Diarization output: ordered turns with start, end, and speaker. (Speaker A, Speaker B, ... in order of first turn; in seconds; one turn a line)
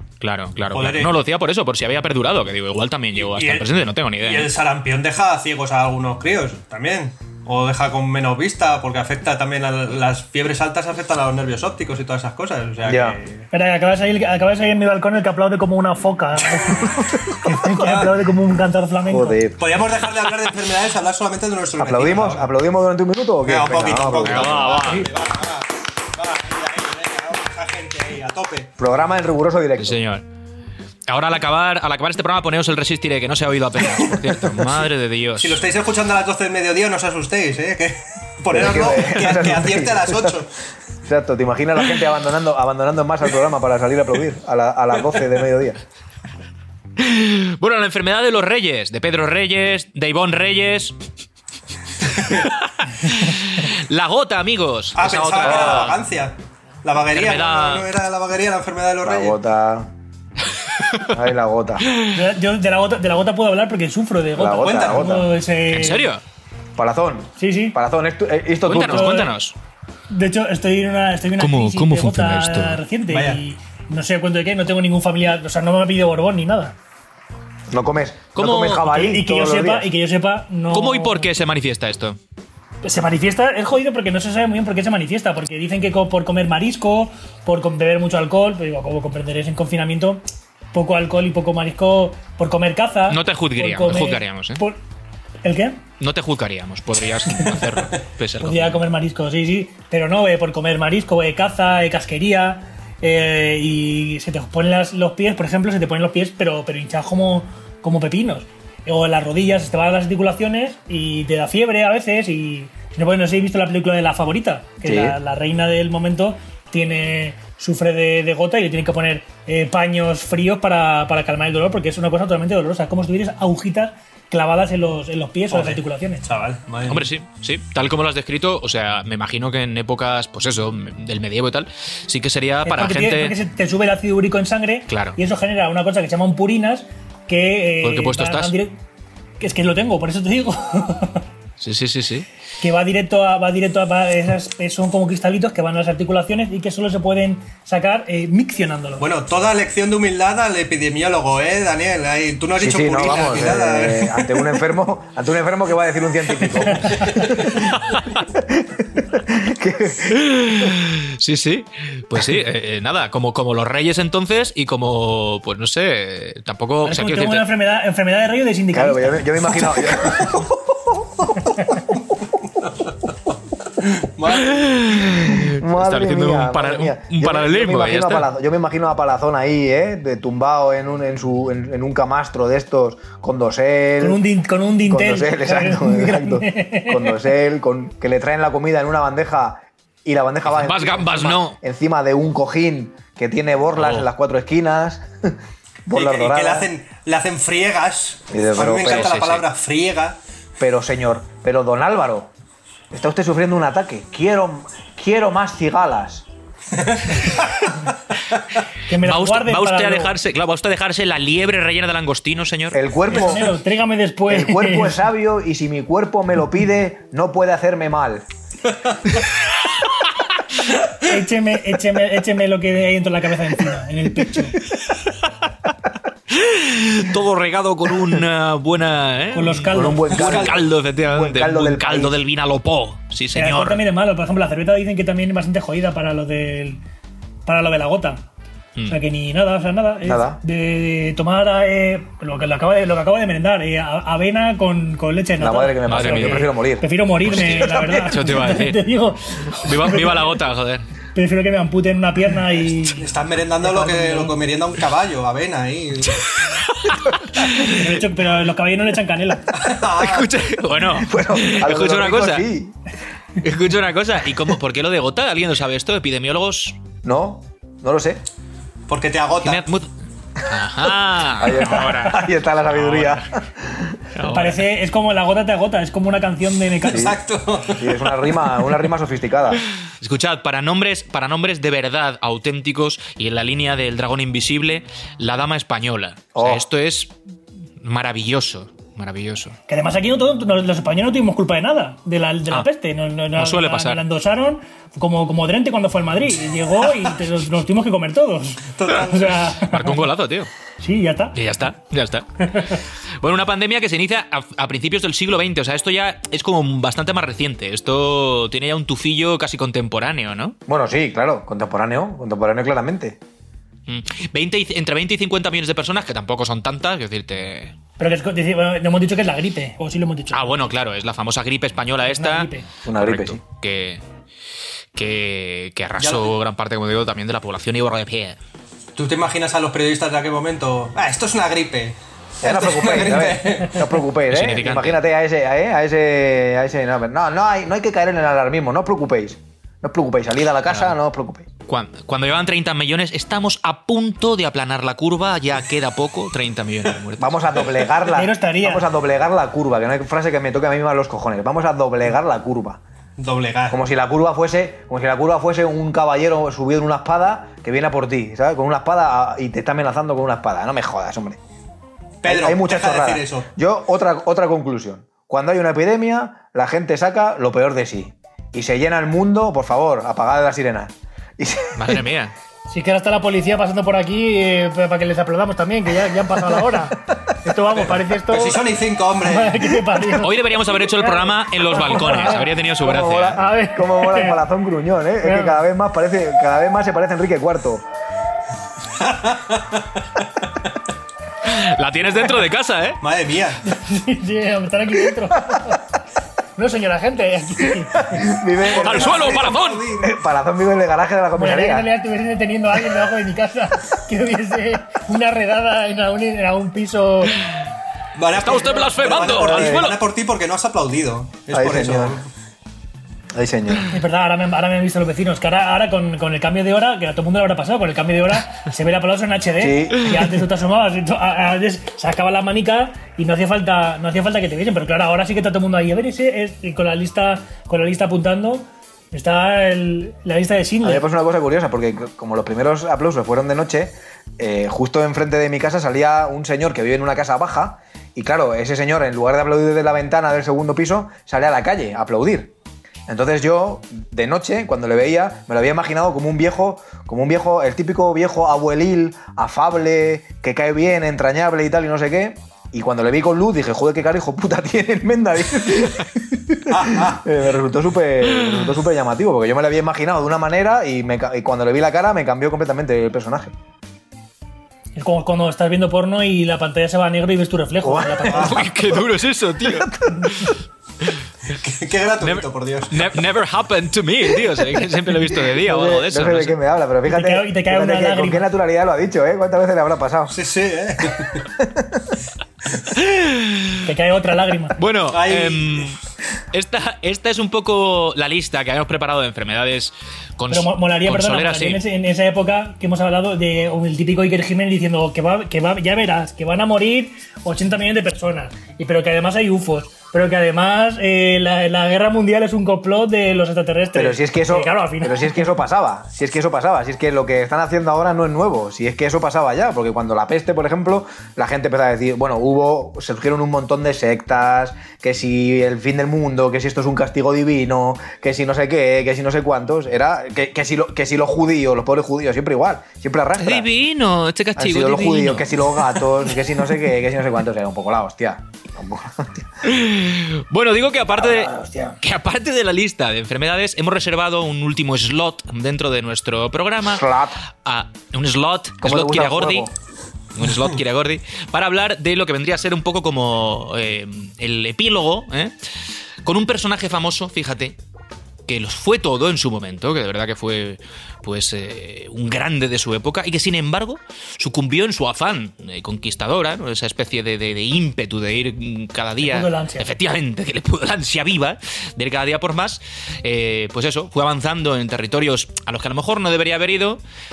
Speaker A: 0.2-4.5
Speaker B: 0.7-1.1
Speaker B: 3.1-13.5
Speaker C: 12.8-13.2
Speaker D: 13.5-19.4
Speaker B: 16.6-16.9
Speaker C: 16.9-17.5
Speaker B: 17.7-18.2
Speaker C: 19.1-19.6
Speaker B: 19.6-22.5
Speaker C: 21.8-24.8
Speaker B: 23.4-28.7
Speaker A: 24.2-25.1
Speaker C: 28.8-30.0
Speaker A: 29.8-30.2
Speaker A: 31.1-35.6
Speaker B: 35.4-40.5
Speaker C: 38.5-40.4
Speaker C: 41.0-45.8
Speaker A: 47.0-51.0
Speaker A: 52.1-56.0
Speaker B: 55.0-59.4
Speaker C: 55.4-55.9
Speaker A: 57.1-57.9
Speaker C: 59.0-59.9
Speaker A: 60.7-61.2
Speaker C: 61.1-61.9
Speaker A: 61.8-62.2
Speaker D: 62.1-66.1
Speaker C: 64.3-65.3
Speaker B: 64.6-65.1
Speaker A: 65.7-66.2
Speaker C: 66.8-69.3
Speaker D: 67.4-67.8
Speaker A: 68.7-69.6
Speaker D: 68.8-69.3
Speaker D: 70.1-76.8
Speaker A: 71.4-72.8
Speaker B: 73.1-73.4
Speaker C: 77.7-79.9
Speaker A: 78.3-79.0
Speaker D: 78.8-81.3
Speaker A: 80.7-82.2
Speaker D: 82.8-94.8
Speaker A: 93.1-94.6
Speaker D: 95.4-95.8
Speaker A: 96.0-98.8
Speaker D: 98.4-126.3
Speaker C: 114.8-115.2
Speaker B: 125.5-127.1
Speaker A: 126.9-133.4
Speaker D: 132.7-138.8
Speaker A: 134.9-135.2
Speaker A: 137.8-138.6
Speaker D: 139.4-141.2
Speaker A: 141.6-142.3
Speaker D: 142.6-149.1
Speaker B: 149.0-154.4
Speaker C: 152.6-157.7
Speaker A: 157.7-158.2
Speaker C: 158.3-160.7
Speaker A: 160.1-167.5
Speaker D: 166.8-169.5
Speaker C: 168.7-171.6
Speaker B: 174.0-174.6
Speaker A: 174.3-178.3
Speaker C: 175.3-184.2
Speaker D: 184.0-187.2
Speaker C: 184.8-196.7
Speaker A: 190.5-191.6
Speaker A: 193.8-194.1
Speaker B: 195.9-200.2
Speaker C: 198.3-199.2
Speaker A: 198.8-199.5
Speaker C: 200.6-202.3
Speaker C: 202.9-206.3
Speaker B: 206.8-207.5
Speaker D: 208.9-210.2
Speaker A: 209.0-212.8
Speaker C: 212.7-213.6
Speaker D: 213.1-215.0
Speaker C: 214.3-218.2
Speaker D: 221.0-224.6
Speaker A: 226.3-233.8
Speaker D: 229.3-230.2
Speaker C: 229.7-232.2
Speaker B: 230.2-230.6
Speaker D: 233.3-236.8
Speaker D: 237.5-238.2
Speaker D: 238.9-250.3
Speaker C: 240.0-240.4
Speaker C: 245.4-246.9
Speaker A: 245.9-246.5
Speaker A: 247.2-248.8
Speaker A: 249.5-250.8
Speaker D: 251.2-253.1
Speaker B: 252.7-256.3
Speaker D: 253.6-254.3
Speaker A: 256.3-257.9
Speaker D: 257.4-259.6
Speaker B: 259.5-260.3
Speaker A: 259.9-262.5
Speaker C: 260.9-262.8
Speaker A: 263.4-266.8
Speaker C: 267.0-268.2
Speaker B: 268.9-269.6
Speaker A: 269.4-269.9
Speaker A: 270.4-273.3
Speaker C: 271.3-274.0
Speaker A: 274.1-274.6
Speaker D: 274.2-277.1
Speaker B: 276.8-278.1
Speaker C: 276.9-277.2
Speaker C: 277.7-279.6
Speaker A: 280.0-287.1
Speaker C: 286.4-286.6
Speaker A: 287.8-289.6
Speaker D: 289.7-300.1
Speaker A: 293.4-294.0
Speaker B: 298.7-299.4
Speaker A: 299.6-300.5
Speaker D: 300.8-301.4
Speaker A: 301.3-310.6
Speaker C: 310.7-313.2
Speaker A: 313.9-317.7
Speaker D: 318.0-320.5
Speaker A: 320.3-324.0
Speaker D: 322.1-322.7
Speaker C: 322.8-323.4
Speaker A: 324.9-328.4
Speaker B: 326.0-326.3
Speaker B: 329.0-333.9
Speaker C: 332.4-341.5
Speaker A: 334.3-335.0
Speaker A: 341.7-347.6
Speaker C: 347.2-352.8
Speaker D: 348.0-348.9
Speaker B: 353.2-353.8
Speaker C: 353.7-361.4
Speaker B: 362.2-363.5
Speaker C: 362.2-372.0
Speaker A: 371.8-372.3
Speaker D: 372.7-378.6
Speaker B: 377.7-379.8
Speaker D: 379.2-382.5
Speaker A: 380.2-383.4
Speaker C: 382.8-387.9
Speaker D: 383.3-384.4
Speaker D: 385.2-385.6
Speaker B: 389.0-389.8
Speaker A: 391.4-393.0
Speaker B: 393.0-393.6
Speaker D: 393.7-395.8
Speaker D: 396.6-398.3
Speaker C: 398.0-401.9
Speaker B: 398.6-400.1
Speaker A: 398.7-399.9
Speaker D: 401.3-407.4
Speaker B: 408.2-412.3
Speaker A: 408.3-410.0
Speaker C: 409.2-409.9
Speaker C: 411.5-412.2
Speaker C: 413.3-413.9
Speaker D: 413.9-431.0
Speaker C: 419.6-420.2
Speaker C: 430.8-442.5
Speaker C: 443.1-463.5
Speaker B: 456.7-457.2
Speaker D: 464.9-468.7
Speaker C: 467.8-468.7
Speaker A: 468.3-471.2
Speaker C: 469.6-470.4
Speaker B: 471.5-473.1
Speaker A: 472.2-476.6
Speaker C: 475.4-480.4
Speaker D: 477.1-478.5
Speaker B: 480.3-481.5
Speaker C: 481.6-482.1
Speaker A: 482.9-483.9
Speaker D: 483.9-484.8
Speaker A: 484.8-486.0
Speaker B: 485.1-485.9
Speaker A: 486.5-491.8
Speaker D: 490.5-505.5
Speaker C: 503.9-523.7
Speaker A: 523.4-525.9
Speaker C: 524.6-529.5
Speaker A: 529.6-537.1
Speaker C: 531.1-532.0
Speaker C: 536.9-537.4
Speaker A: 537.6-539.7
Speaker C: 538.8-539.7
Speaker A: 540.4-545.5
Speaker A: 546.2-547.8
Speaker A: 548.5-567.0
Speaker D: 559.2-559.9